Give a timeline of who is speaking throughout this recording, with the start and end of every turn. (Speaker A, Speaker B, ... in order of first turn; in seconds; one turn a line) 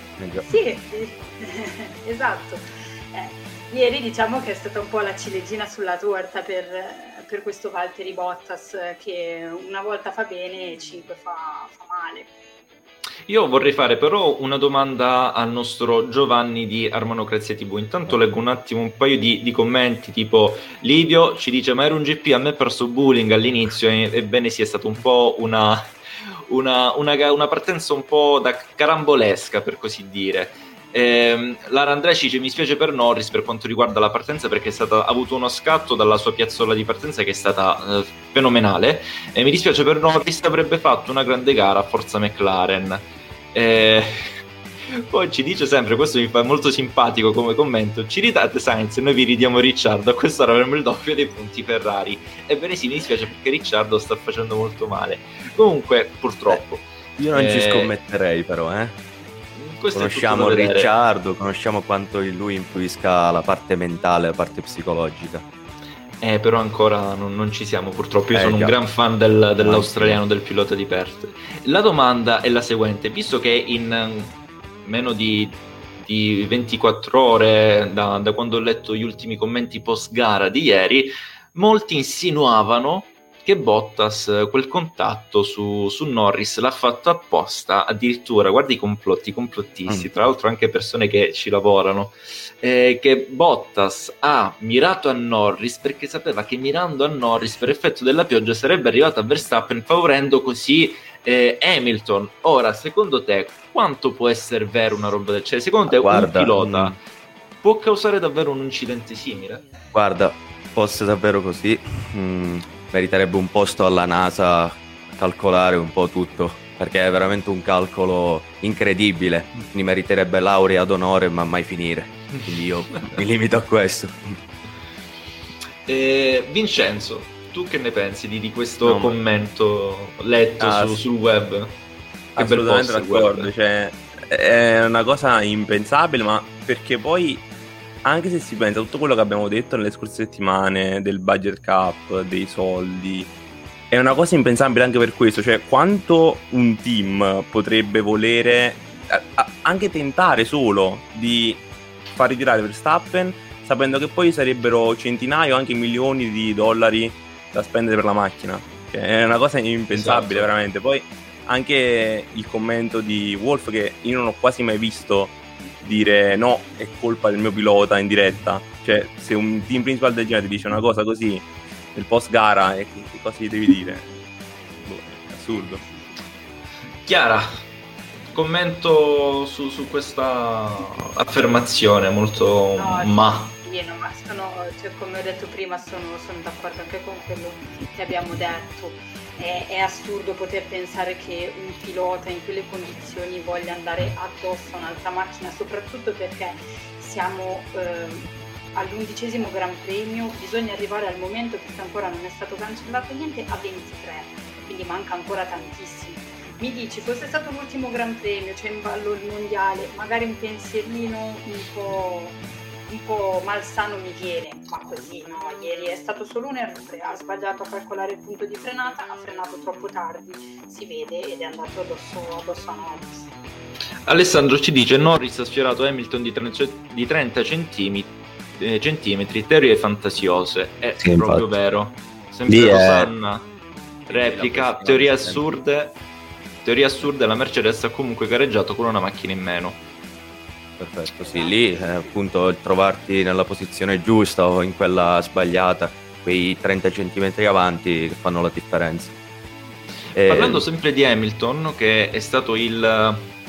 Speaker A: 0.2-0.5
Speaker B: 0.5-12.3
Speaker C: 13.3-25.9
Speaker C: 26.5-44.4
Speaker C: 44.9-57.9
Speaker A: 57.2-59.0
Speaker C: 59.6-60.9
Speaker A: 60.0-65.5
Speaker C: 66.2-107.0
Speaker A: 68.3-68.8
Speaker A: 69.6-70.2
Speaker A: 105.9-107.0
Speaker C: 107.6-109.6
Speaker A: 109.9-124.4
Speaker C: 125.9-131.8
Speaker D: 128.8-129.1
Speaker A: 130.6-131.0
Speaker C: 132.4-133.5
Speaker D: 132.4-137.4
Speaker D: 138.1-143.3
Speaker D: 143.9-174.1
Speaker C: 159.9-160.6
Speaker D: 174.8-175.8
Speaker C: 177.1-177.5
Speaker C: 178.3-183.5
Speaker B: 182.8-223.3
Speaker C: 224.1-233.5
Speaker A: 231.0-231.5
Speaker A: 232.5-233.1
Speaker A: 234.1-235.5
Speaker C: 234.1-236.0
Speaker C: 236.7-239.8
Speaker A: 240.8-249.1
Speaker B: 241.2-241.6
Speaker A: 250.2-250.6
Speaker C: 250.2-253.3